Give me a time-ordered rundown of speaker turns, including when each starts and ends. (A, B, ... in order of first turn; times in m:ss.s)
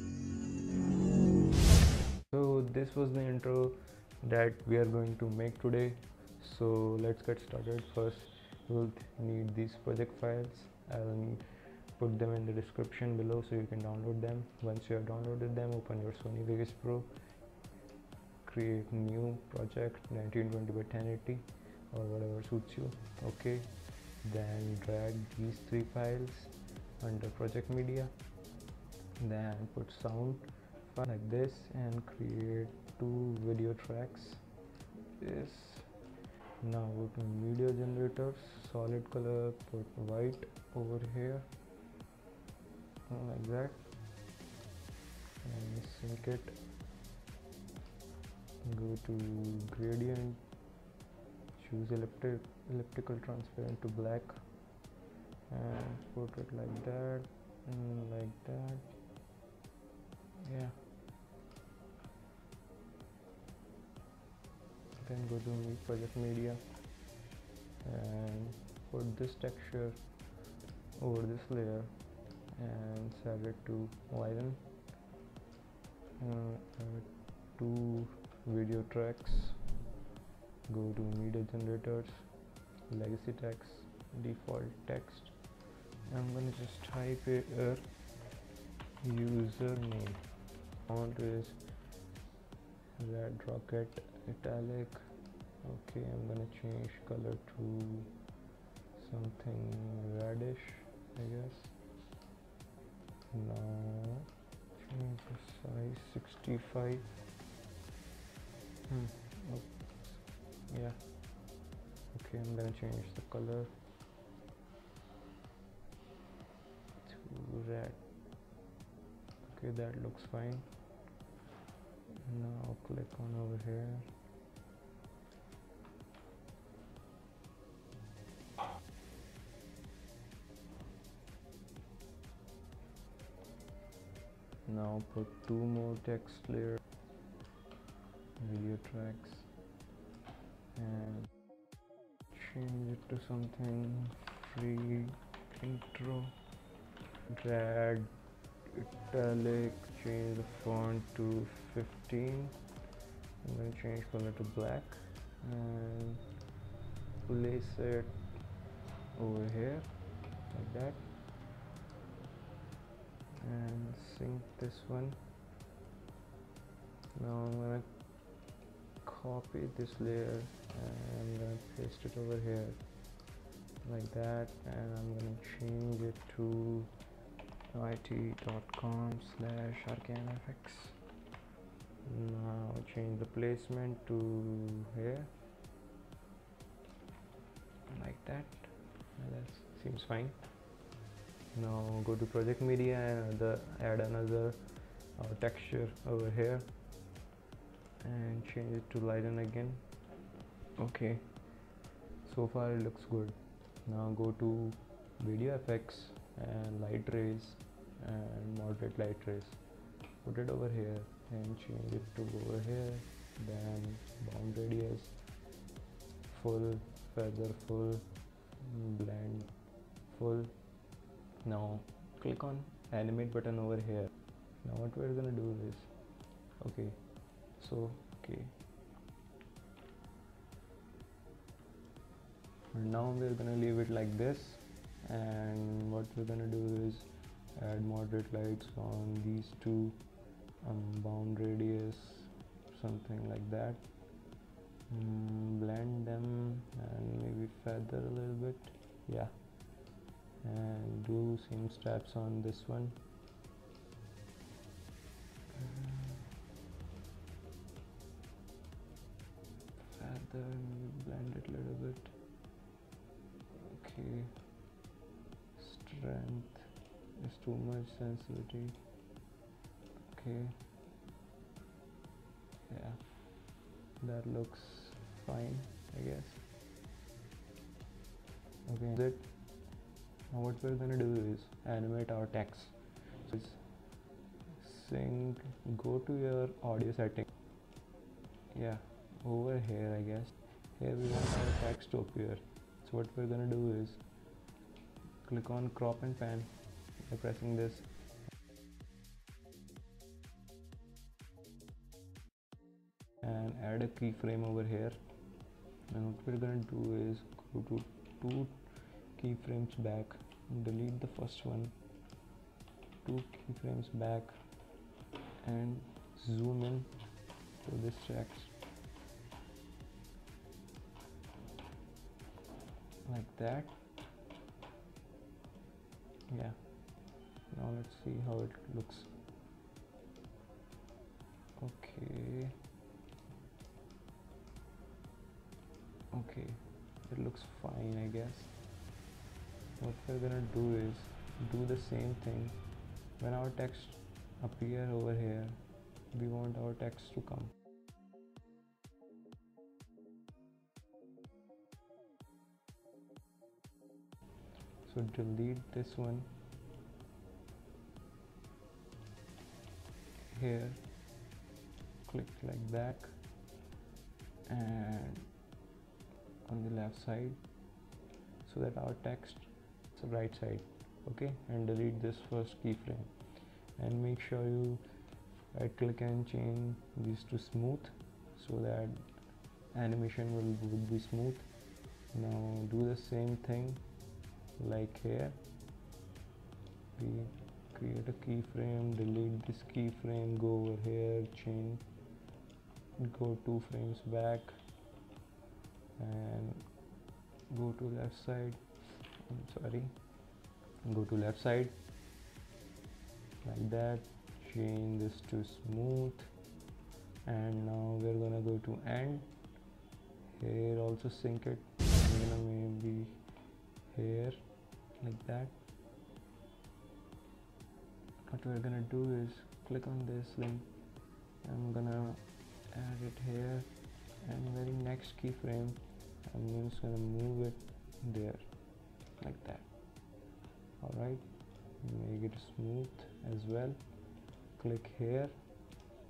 0:02.3-0:17.2 A
0:18.4-0:28.2 A
0:29.2-0:34.5 A
0:35.2-0:36.0 A
0:36.6-0:41.5 A
0:43.1-0:43.9 A
0:45.4-0:46.6 A
0:48.6-0:50.5 A
0:51.6-0:54.6 A
0:55.5-0:59.0 A
1:00.4-1:00.8 A
1:05.0-1:06.9 A
1:07.8-1:10.2 A
1:11.0-1:14.7 A
1:16.2-1:19.7 A
1:20.7-1:25.5 A
1:26.0-1:28.1 A
1:29.0-1:31.8 A
1:33.0-1:38.1 A
1:39.0-1:41.8 A
1:43.3-1:47.1 A
1:48.9-1:51.5 A
1:52.1-1:53.7 A
1:57.0-1:58.1 A
1:59.4-2:00.7 A
2:02.2-2:04.1 A
2:14.7-2:16.8 A
2:18.4-2:19.5 A
2:20.7-2:21.6 A
2:22.3-2:26.4 A
2:27.3-2:32.6 A
2:33.4-2:36.3 A
2:37.2-2:38.4 A
2:39.1-2:41.1 A
2:43.4-2:45.2 A
2:47.1-2:48.2 A
2:49.0-2:53.0 A
2:53.8-2:56.9 A
2:57.7-3:01.0 A
3:02.0-3:05.3 A
3:07.9-3:10.6 A
3:11.5-3:16.8 A
3:18.0-3:20.1 A
3:20.8-3:21.5 A
3:22.2-3:29.6 A
3:30.2-3:35.3 A
3:36.3-3:40.9 A
3:41.4-3:48.6 A
3:52.7-4:04.2 A
4:04.9-4:09.5 A
4:10.4-4:13.0 A
4:15.6-4:16.3 A
4:19.9-4:22.2 A
4:23.6-4:24.5 A
4:25.6-4:28.8 A
4:30.1-4:30.6 A
4:32.7-4:33.4 A
4:34.0-4:36.4 A
4:38.7-4:44.0 A
4:44.6-4:47.3 A
4:48.5-4:54.1 A
4:55.2-4:57.9 A
5:03.2-5:05.0 A
5:05.9-5:11.8 A
5:13.0-5:14.6 A
5:15.4-5:18.6 A
5:23.0-5:23.8 A
5:26.3-5:29.1 A
5:31.6-5:32.6 A
5:36.1-5:38.6 A
5:39.8-5:47.6 A
5:54.8-5:56.3 A
6:00.3-6:00.8 A
6:02.1-6:03.2 A
6:04.5-6:05.4 A
6:06.4-6:07.5 A
6:08.4-6:24.0 A
6:24.5-6:25.4 A
6:27.0-6:31.9 A
6:33.0-6:34.6 A
6:36.0-6:36.8 A
6:37.5-6:40.1 A
6:40.8-6:41.8 A
6:43.4-6:46.4 A
6:47.2-6:49.5 A
6:50.2-6:53.3 A
6:53.8-6:55.6 A
6:58.3-7:00.8 A
7:01.4-7:09.8 A
7:10.8-7:15.5 A